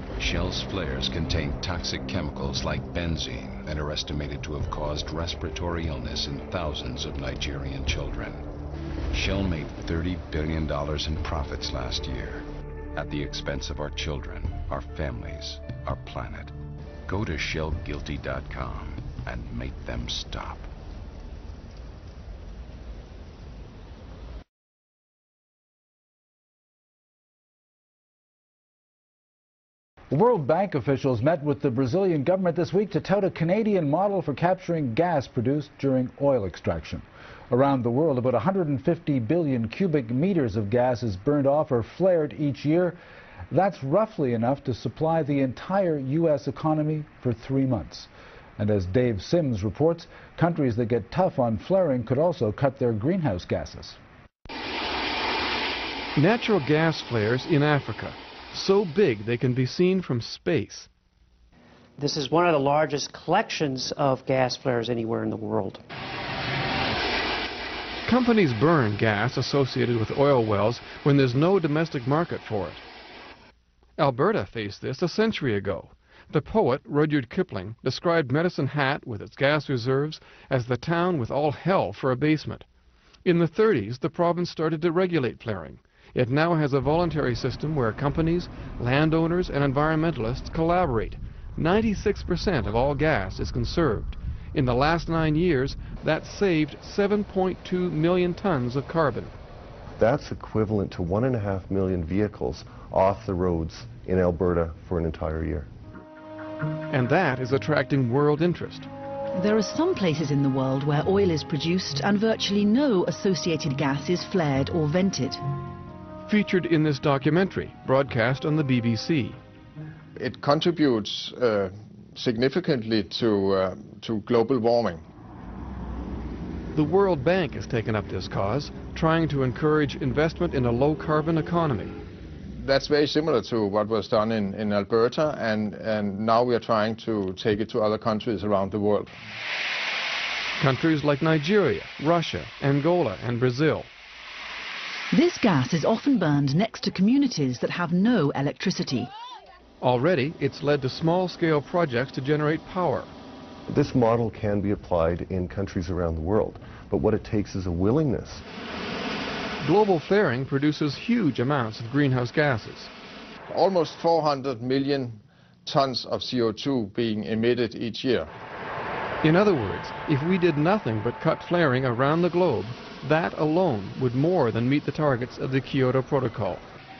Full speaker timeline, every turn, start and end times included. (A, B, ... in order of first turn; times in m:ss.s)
0:00.2-0:08.4 A
0:09.1-0:16.5 A
0:17.1-0:20.7 A
0:30.1-0:43.0 B
0:43.5-0:54.0 B
0:56.2-1:00.9 C
1:02.0-1:05.8 D
1:08.0-1:12.8 C
1:14.0-1:22.6 C
1:23.2-1:39.3 C
1:40.0-1:45.7 E
1:46.9-1:48.9 C
1:49.3-1:55.4 F
1:56.2-1:59.4 C
2:00.2-2:05.0 G
2:06.7-2:11.9 C
2:12.6-2:19.1 G
2:20.6-2:23.9 C
2:25.1-2:29.1 F
2:29.8-2:33.1 C
2:33.7-2:38.4 E
2:39.6-2:42.9 C
2:43.5-2:48.3 G
2:49.2-2:56.6 C